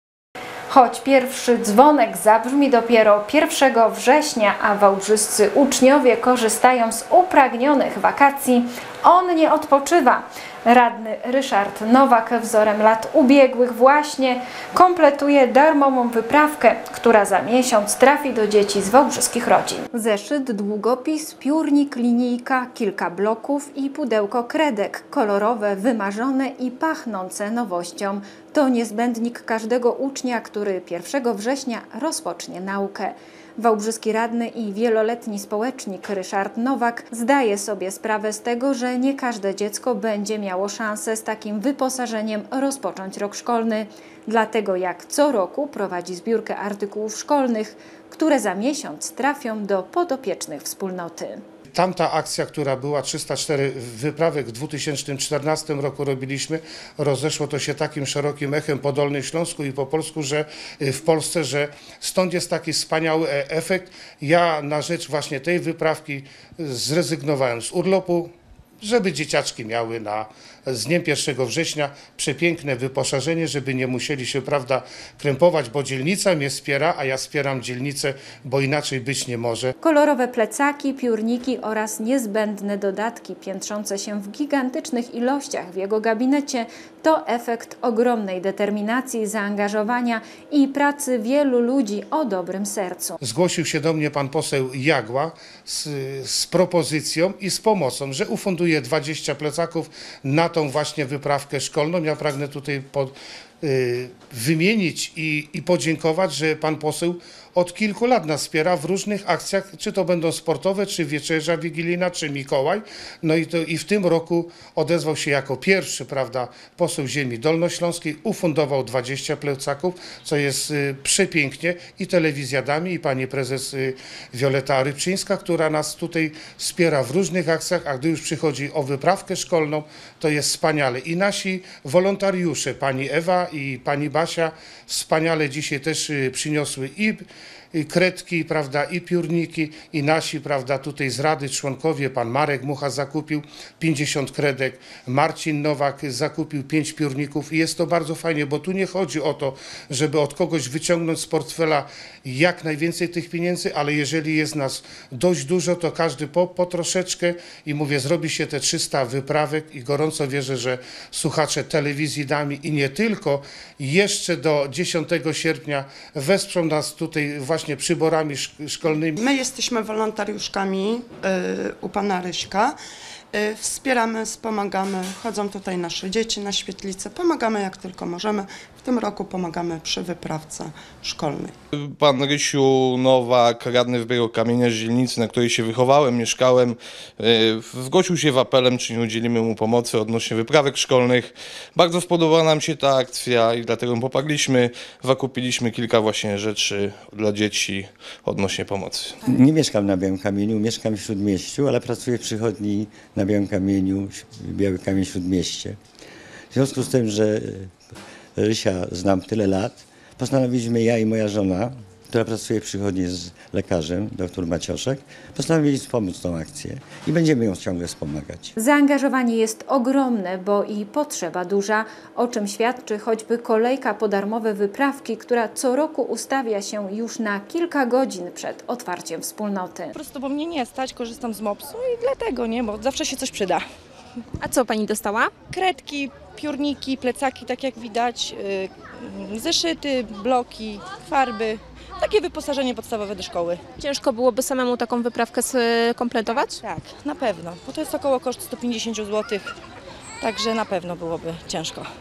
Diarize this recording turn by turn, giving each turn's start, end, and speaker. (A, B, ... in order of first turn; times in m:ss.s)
0:00.7-0:51.4 A
0:51.7-1:19.7 B
1:19.8-1:33.2 A
1:33.2-2:49.2 B
2:49.1-2:52.8 C
2:53.3-3:01.6 C
3:01.7-3:19.2 D
3:19.2-3:25.8 E
3:26.5-3:27.8 E
3:28.4-3:38.5 E
3:38.6-3:50.0 A
3:49.9-3:53.7 F
3:54.4-3:55.3 G
3:55.5-4:03.6 F
4:03.8-4:06.6 G
4:06.2-4:09.5 F
4:10.2-4:11.9 F